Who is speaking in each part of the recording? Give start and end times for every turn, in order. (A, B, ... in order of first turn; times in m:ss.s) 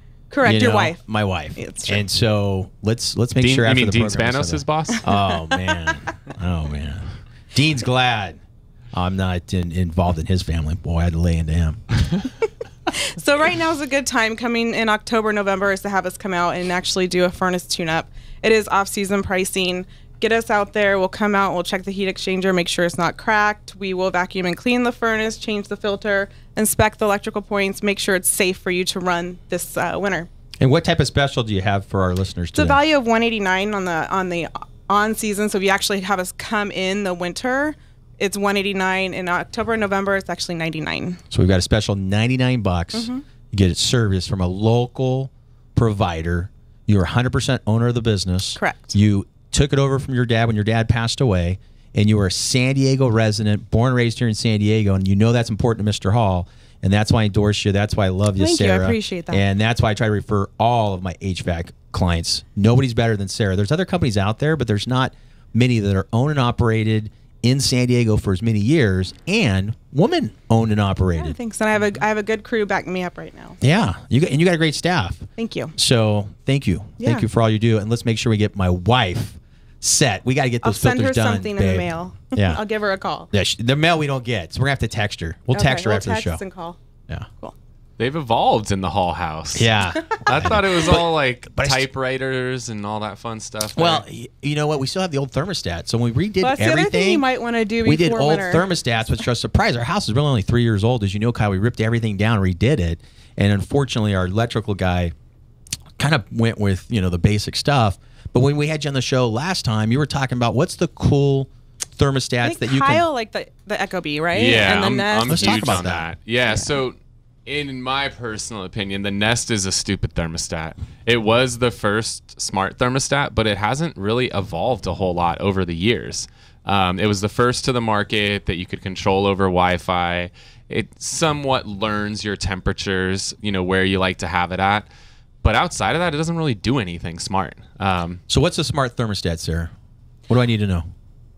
0:00.3-0:01.0 A
0:00.4-0:08.4 B
0:01.6-0:02.0 A
0:03.4-0:05.0 C
0:05.0-0:05.8 A
0:08.9-0:11.8 B
0:12.9-0:30.3 A
0:30.6-0:32.8 B
0:32.5-0:41.2 A
0:41.3-1:11.4 B
0:42.9-0:43.2 A
0:48.6-0:49.0 A
0:58.4-0:59.4 A
1:11.2-1:13.6 A
1:13.6-1:22.6 B
1:15.4-1:15.7 A
1:17.0-1:17.2 A
1:20.6-1:23.3 A
1:23.3-1:26.4 B
1:25.5-1:26.8 A
1:28.0-1:34.0 C
1:29.6-1:31.8 B
1:33.8-1:37.3 B
1:36.4-1:38.6 A
1:37.8-1:45.1 B
1:46.0-1:53.0 B
1:52.4-1:55.8 A
1:54.3-2:14.9 C
1:55.3-1:56.1 B
1:56.5-1:56.8 A
2:15.4-2:18.2 C
2:18.3-2:19.7 B
2:20.3-2:20.8 B